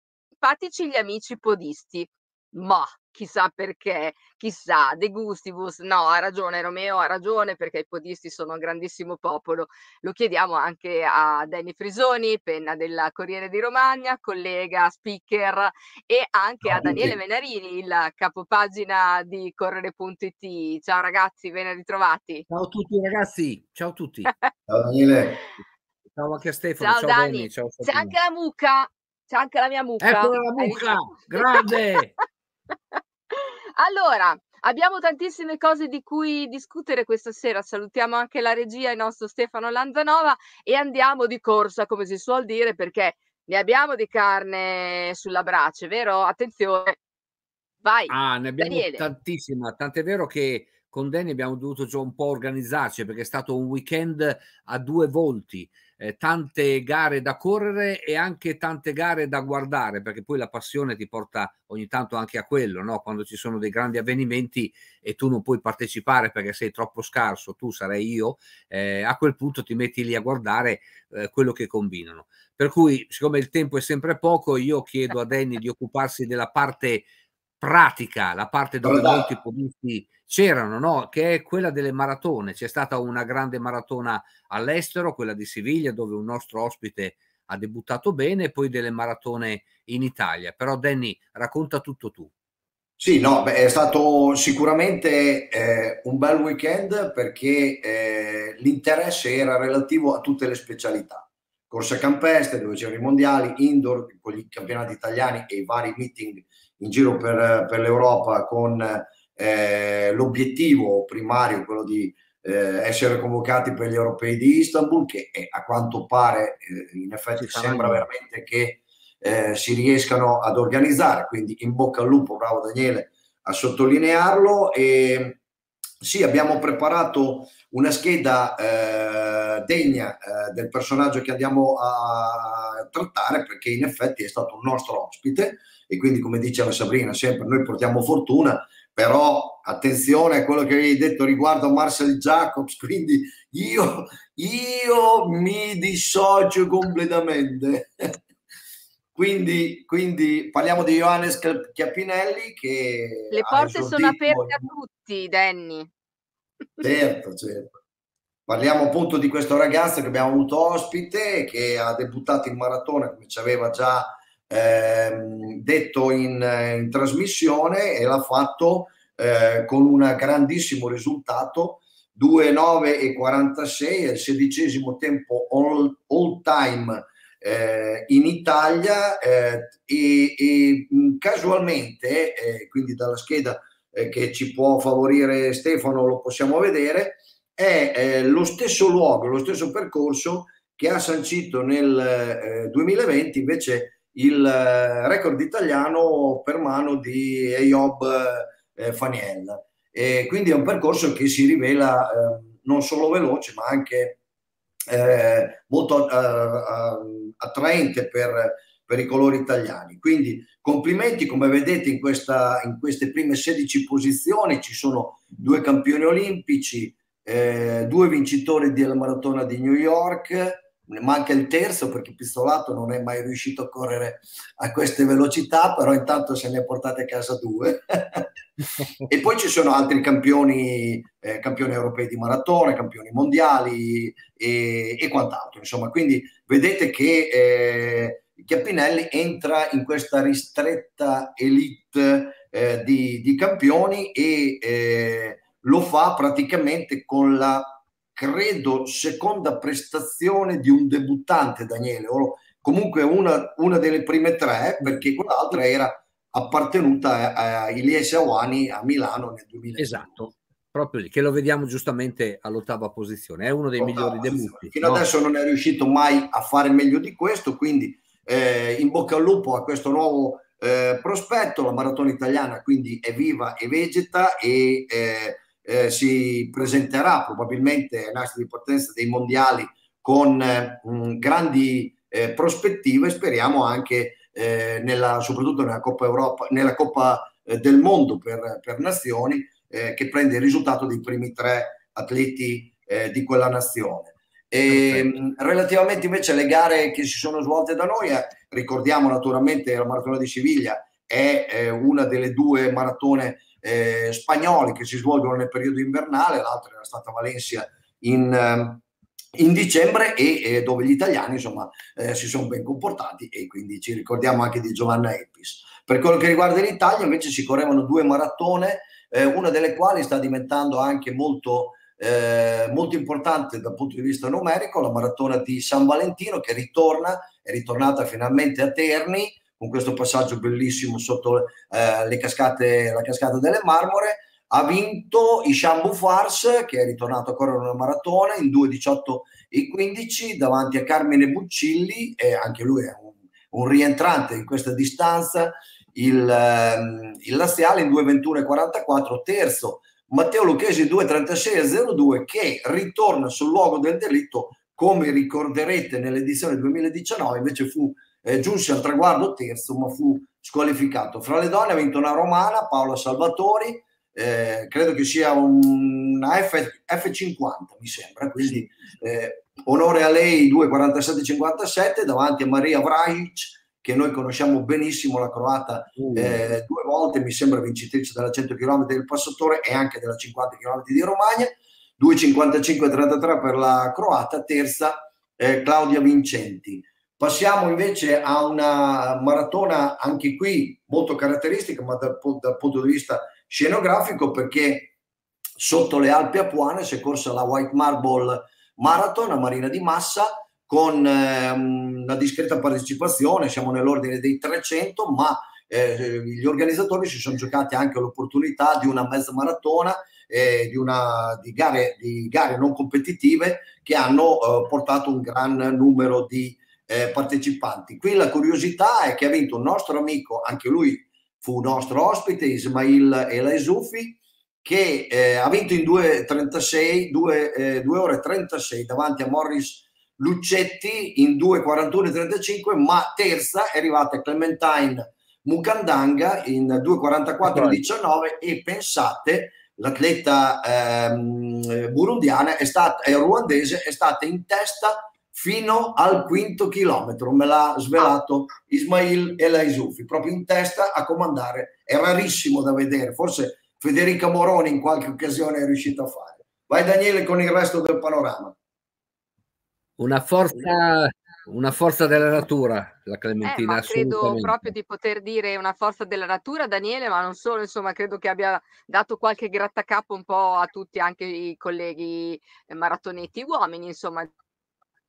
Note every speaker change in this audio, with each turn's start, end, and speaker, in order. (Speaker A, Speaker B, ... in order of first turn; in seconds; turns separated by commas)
Speaker A: 0.4-22.4, Speaker B: 16.6-17.1, Speaker C: 22.5-24.3, Speaker B: 24.7-25.4, Speaker C: 26.1-28.1, Speaker A: 26.8-31.8, Speaker C: 30.0-32.1, Speaker A: 32.9-47.0, Speaker A: 47.8-49.0, Speaker C: 48.1-77.1, Speaker C: 77.6-92.3, Speaker B: 78.8-79.3, Speaker B: 93.0-125.4, Speaker C: 117.4-118.0, Speaker B: 126.0-148.2, Speaker B: 149.2-154.6, Speaker A: 153.3-155.9, Speaker B: 156.8-157.8, Speaker B: 158.5-204.2, Speaker B: 204.9-228.3, Speaker B: 229.1-260.2, Speaker C: 259.8-265.1, Speaker B: 263.8-308.8, Speaker C: 294.7-295.1, Speaker B: 309.4-394.9, Speaker C: 376.0-376.4, Speaker B: 395.6-458.6, Speaker C: 437.4-437.8, Speaker C: 460.0-464.7, Speaker A: 463.4-474.3